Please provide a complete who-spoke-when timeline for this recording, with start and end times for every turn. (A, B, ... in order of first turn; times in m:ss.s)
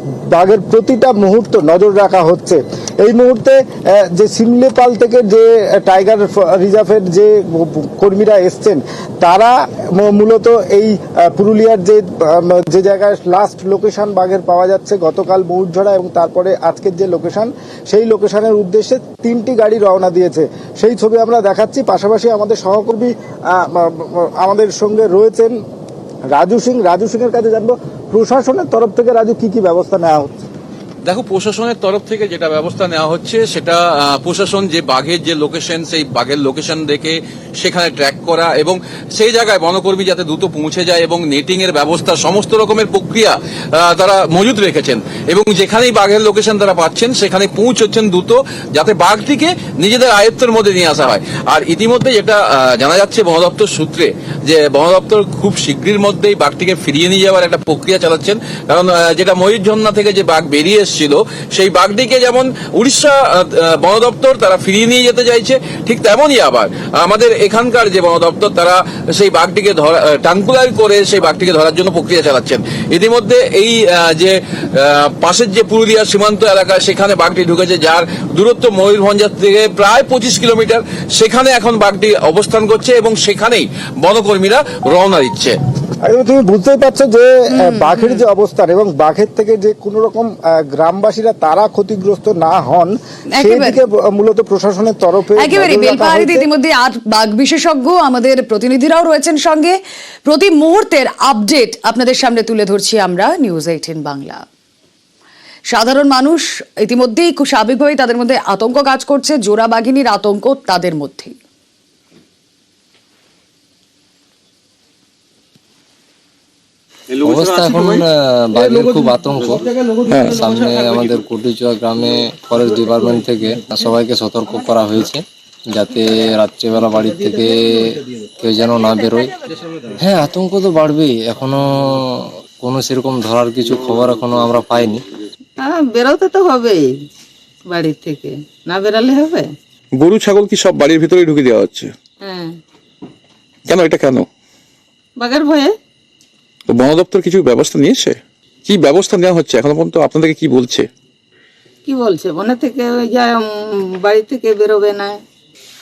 0:00.3-0:03.6 A
0:04.1-0:25.5 A
0:26.3-0:30.4 A
0:31.0-1:25.6 B
1:26.0-1:36.5 A
1:27.6-1:28.2 C
1:33.3-1:33.8 C
1:35.4-1:44.4 C
1:45.7-1:51.3 C
1:57.2-2:09.3 D
2:00.1-2:00.4 B
2:10.0-2:11.6 D
2:12.6-2:15.0 D
2:15.6-2:17.0 E
2:17.6-2:19.5 E
2:20.0-2:21.9 B
2:22.2-2:22.6 E
2:23.7-2:24.3 B
2:25.2-2:25.7 E
2:26.7-2:30.9 B
2:31.8-2:35.2 E